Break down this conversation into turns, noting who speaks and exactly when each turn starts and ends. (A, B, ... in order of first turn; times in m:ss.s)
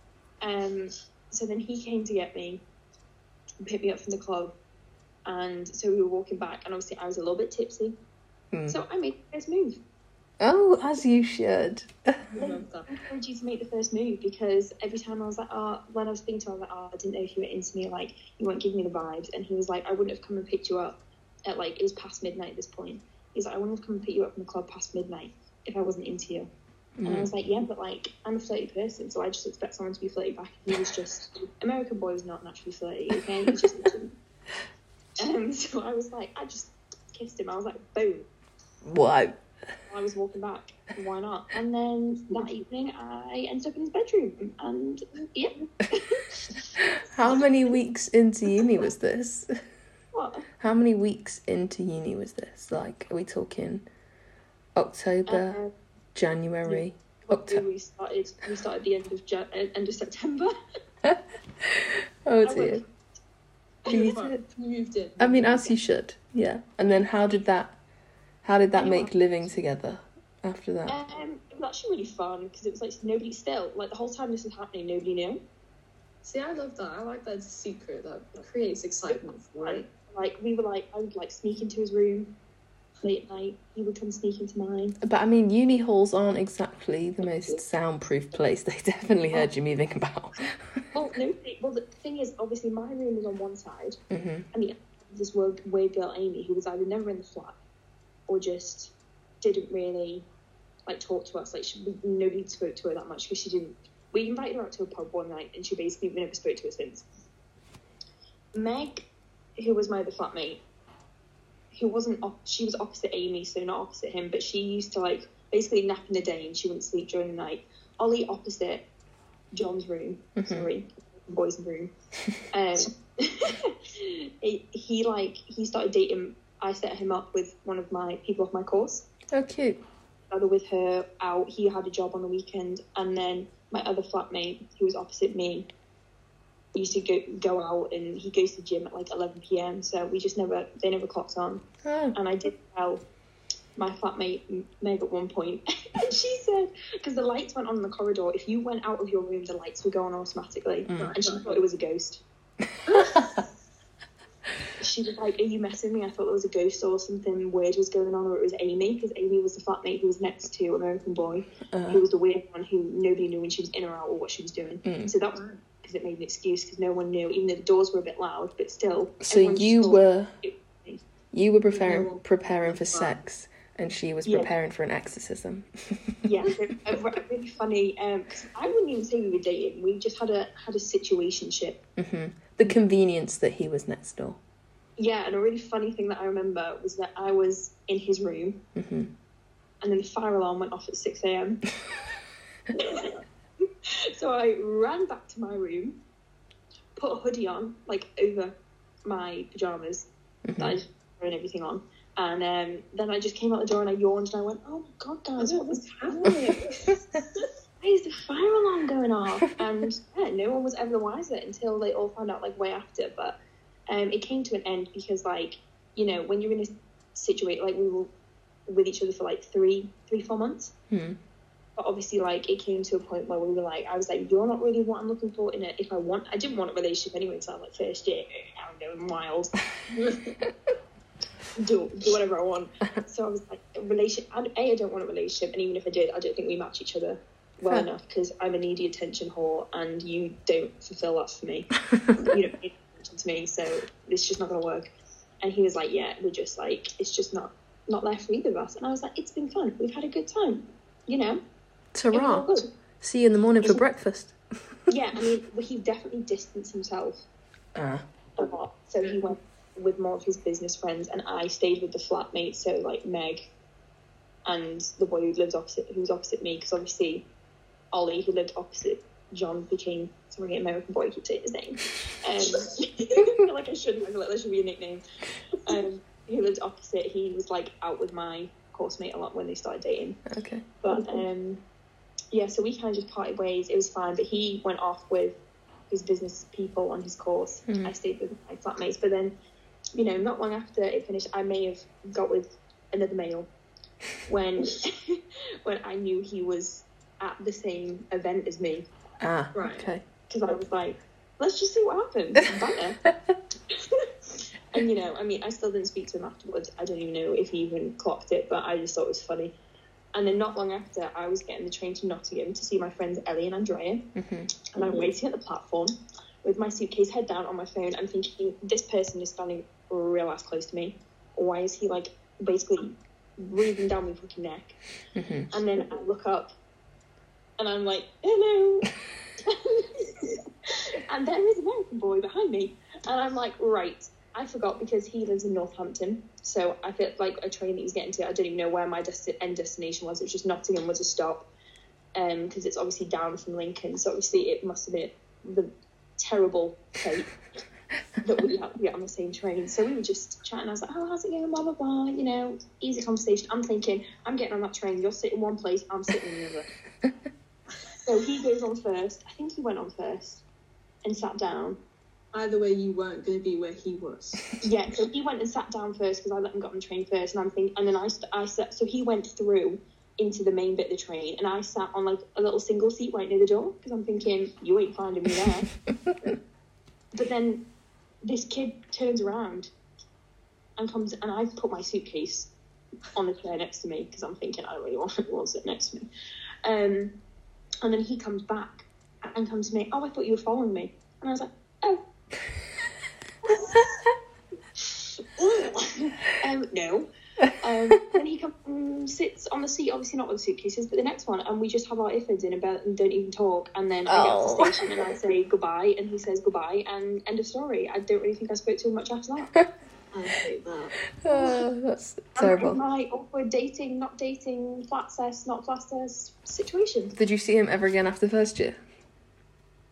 0:00.4-0:02.6 A
0:03.6-0:04.5 A
0:05.2-0:08.0 A
0:08.5-0:08.8 B
0:08.7-0:09.8 A
0:10.4-0:12.2 B
0:12.3-0:12.9 C
0:12.4-0:26.5 A
0:27.0-0:27.3 B
0:27.0-0:34.1 A
0:35.2-0:38.3 A
0:38.8-0:39.4 B
0:39.9-0:46.6 A
0:46.8-0:49.6 B
0:47.3-0:47.7 A
0:50.1-0:50.5 A
0:50.6-0:53.8 B
0:54.8-0:55.6 B
0:55.3-0:55.7 A
0:56.1-0:57.6 B
0:56.6-1:00.5 A
1:01.0-1:02.8 B
1:02.4-1:02.8 A
1:03.8-1:04.1 A
1:03.9-1:04.4 B
1:03.9-1:05.7 C
1:05.2-1:07.8 B
1:08.4-1:11.0 B
1:08.7-1:09.1 A
1:10.9-1:15.4 A
1:16.2-1:19.9 C
1:19.0-1:22.3 A
1:23.0-1:25.0 A
1:25.0-1:30.8 B
1:30.9-1:34.0 A
1:34.1-1:34.4 B
1:34.5-1:37.6 A
1:38.3-1:40.2 A
1:40.9-1:47.0 A
1:48.5-1:50.6 A
1:51.7-1:58.9 A
1:59.5-2:01.9 A
2:00.4-2:00.7 B
2:02.5-2:09.1 A
2:09.3-2:09.8 B
2:10.3-2:15.7 A
2:16.7-2:23.0 A
2:21.8-2:22.1 B
2:23.8-2:32.2 A
2:30.9-2:31.1 B
2:30.9-2:31.5 C
2:32.9-2:33.2 C
2:32.9-2:33.4 B
2:34.8-2:51.0 A
2:41.7-2:42.0 B
2:44.8-2:45.1 B
2:45.3-2:45.6 C
2:49.2-2:50.3 B
2:51.3-2:56.2 B
2:51.7-2:53.2 C
2:54.2-2:54.5 A
2:56.2-3:01.8 A
3:02.0-3:04.4 B
3:05.0-3:08.6 A
3:08.7-3:09.1 B
3:09.8-3:11.6 A
3:12.7-3:13.2 A
3:13.9-3:16.0 A
3:17.0-3:26.3 A
3:20.4-3:20.8 B
3:25.4-3:27.0 C
3:27.8-3:38.1 A
3:38.7-3:40.7 A
3:40.9-3:41.2 B
3:41.8-3:49.6 A
3:49.9-3:50.4 C
3:51.6-4:04.9 A
4:05.4-4:11.4 A
4:11.9-4:14.4 B
4:12.1-4:12.7 A
4:14.9-4:17.2 A
4:17.7-4:18.0 B
4:18.4-4:23.5 A
4:24.4-4:27.3 A
4:27.9-4:35.0 A
4:35.6-4:40.2 A
4:40.3-4:40.6 B
4:40.8-4:41.6 A
4:42.3-4:49.4 A
4:47.7-4:47.9 B
4:50.0-4:53.5 A
4:54.2-4:58.9 A
4:59.2-5:00.0 B
4:59.5-4:59.9 C
5:00.3-5:03.0 A
5:03.7-5:09.6 A
5:10.1-5:14.1 A
5:14.1-5:14.5 B
5:14.7-5:24.8 A
5:14.8-5:15.1 C
5:25.1-5:25.5 B
5:25.5-5:26.5 A
5:27.6-5:28.9 A
5:29.4-5:41.5 A
5:42.1-5:47.4 A
5:48.2-5:56.7 A
5:58.0-6:00.4 A
6:01.0-6:01.8 A
6:02.3-6:04.6 C
6:04.6-6:15.7 A
6:15.9-6:16.2 B
6:17.1-6:17.6 A
6:18.2-6:19.7 A
6:20.8-6:22.5 A
6:23.1-6:26.1 A
6:26.6-6:27.2 A
6:27.8-6:32.0 A
6:33.5-6:33.8 A
6:34.8-6:37.1 A
6:37.6-6:49.5 A
6:44.1-6:44.8 B
6:50.1-6:51.0 C
6:51.2-6:52.8 B
6:52.4-6:57.1 A
6:57.2-6:58.8 B